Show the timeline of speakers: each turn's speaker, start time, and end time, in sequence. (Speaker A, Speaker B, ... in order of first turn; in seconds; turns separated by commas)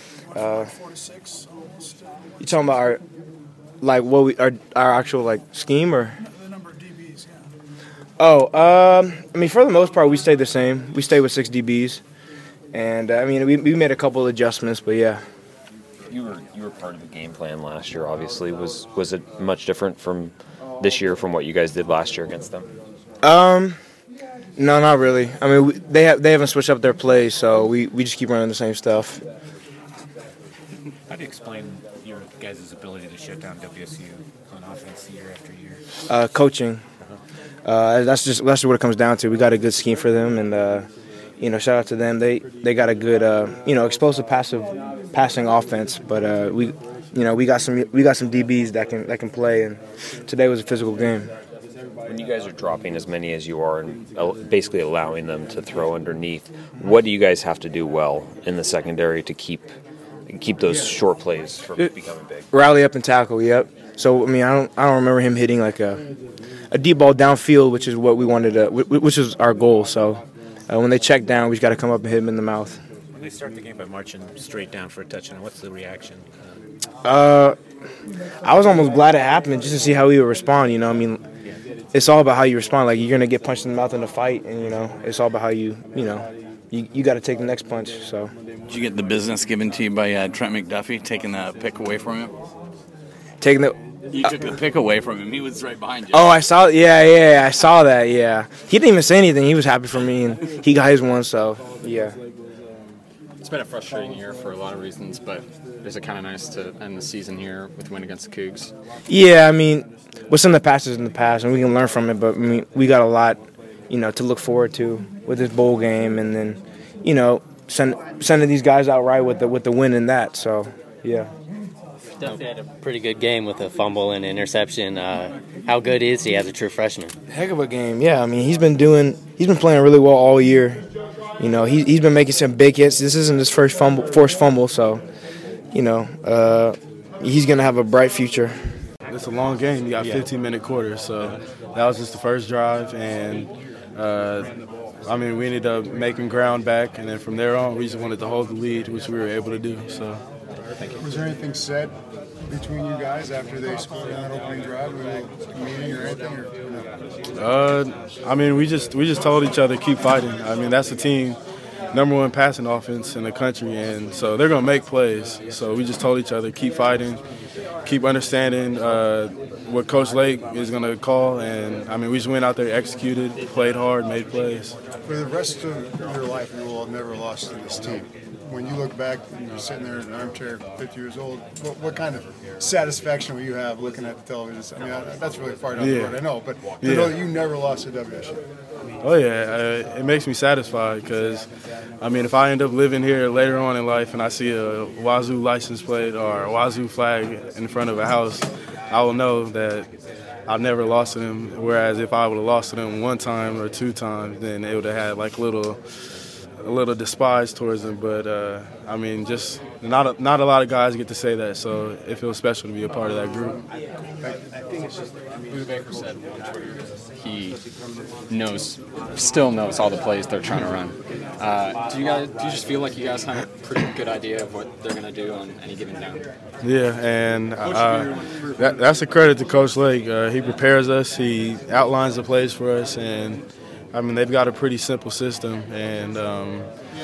Speaker A: 0.3-2.1, Speaker B: 0.4-0.6, Speaker B: 2.4-3.0, Speaker B: 3.8-6.1, Speaker A: 6.2-7.5, Speaker B: 8.2-12.0, Speaker B: 12.7-15.2, Speaker C: 16.1-22.7, Speaker B: 23.2-23.8, Speaker B: 24.6-29.2, Speaker D: 31.1-35.8, Speaker B: 36.1-36.8, Speaker B: 37.6-40.9, Speaker B: 41.4-51.3, Speaker C: 52.1-59.7, Speaker C: 60.3-62.5, Speaker B: 62.5-66.0, Speaker B: 66.7-72.8, Speaker D: 73.2-76.6, Speaker B: 77.0-77.6, Speaker B: 78.4-81.2, Speaker B: 81.9-88.3, Speaker E: 88.7-92.3, Speaker B: 93.4-94.4, Speaker E: 94.1-96.2, Speaker B: 96.1-102.2, Speaker F: 103.4-108.7, Speaker B: 109.1-113.4, Speaker B: 113.9-121.3, Speaker G: 122.2-127.1, Speaker B: 127.3-130.8, Speaker B: 131.4-135.0, Speaker B: 135.7-138.6, Speaker H: 139.1-144.5, Speaker H: 145.1-150.2, Speaker I: 151.0-151.9, Speaker I: 152.5-156.9, Speaker H: 157.4-161.4, Speaker H: 161.9-167.2, Speaker H: 167.8-174.7, Speaker I: 175.1-188.4, Speaker H: 185.8-186.2, Speaker H: 186.8-187.2, Speaker H: 189.0-191.5, Speaker H: 192.0-199.9, Speaker H: 200.5-205.8, Speaker H: 206.6-213.6, Speaker F: 215.5-217.6, Speaker F: 218.3-226.3, Speaker H: 226.6-236.7